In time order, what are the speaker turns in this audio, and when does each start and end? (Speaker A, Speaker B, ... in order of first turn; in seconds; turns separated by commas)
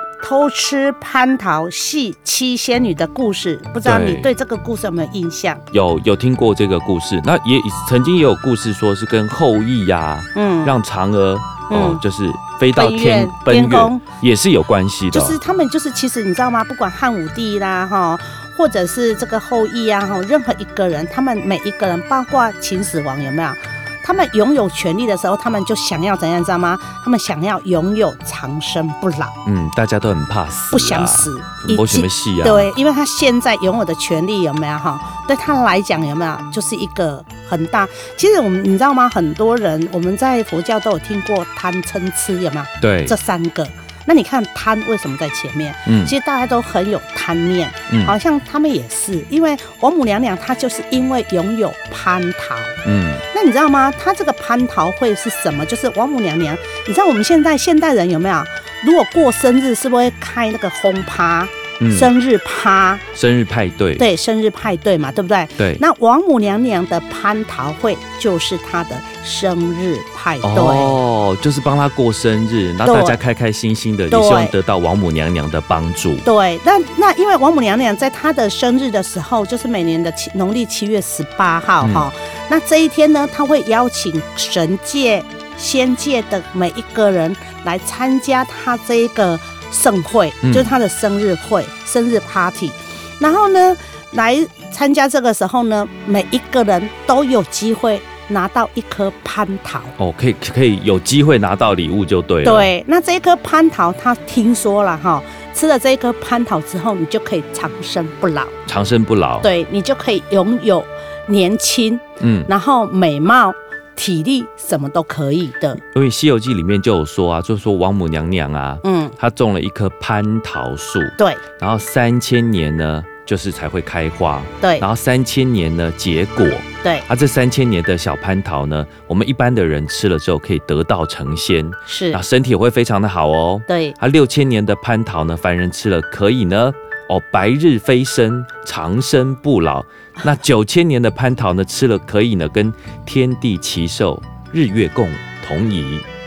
Speaker A: 0.2-5.6, Speaker B: 3.8-4.3, Speaker B: 5.7-15.4, Speaker A: 10.3-10.8, Speaker A: 11.7-12.0, Speaker A: 12.7-14.0, Speaker A: 15.1-29.3, Speaker B: 29.4-32.7, Speaker A: 30.7-52.8, Speaker B: 42.8-43.1, Speaker B: 45.9-46.1, Speaker B: 47.9-48.1, Speaker B: 52.8-53.2, Speaker A: 53.3-63.0, Speaker B: 61.8-62.1, Speaker B: 63.1-64.0, Speaker A: 64.0-71.0, Speaker B: 70.4-76.2, Speaker A: 72.8-73.2, Speaker A: 74.1-74.5, Speaker A: 76.2-99.9, Speaker B: 81.8-82.1, Speaker B: 90.4-90.7, Speaker B: 100.0-102.7, Speaker A: 102.4-108.5, Speaker B: 108.7-109.5, Speaker A: 109.4-115.8, Speaker B: 112.2-112.5, Speaker B: 115.9-146.0, Speaker A: 118.8-119.1, Speaker A: 121.2-121.4, Speaker A: 131.8-132.2, Speaker A: 133.7-133.9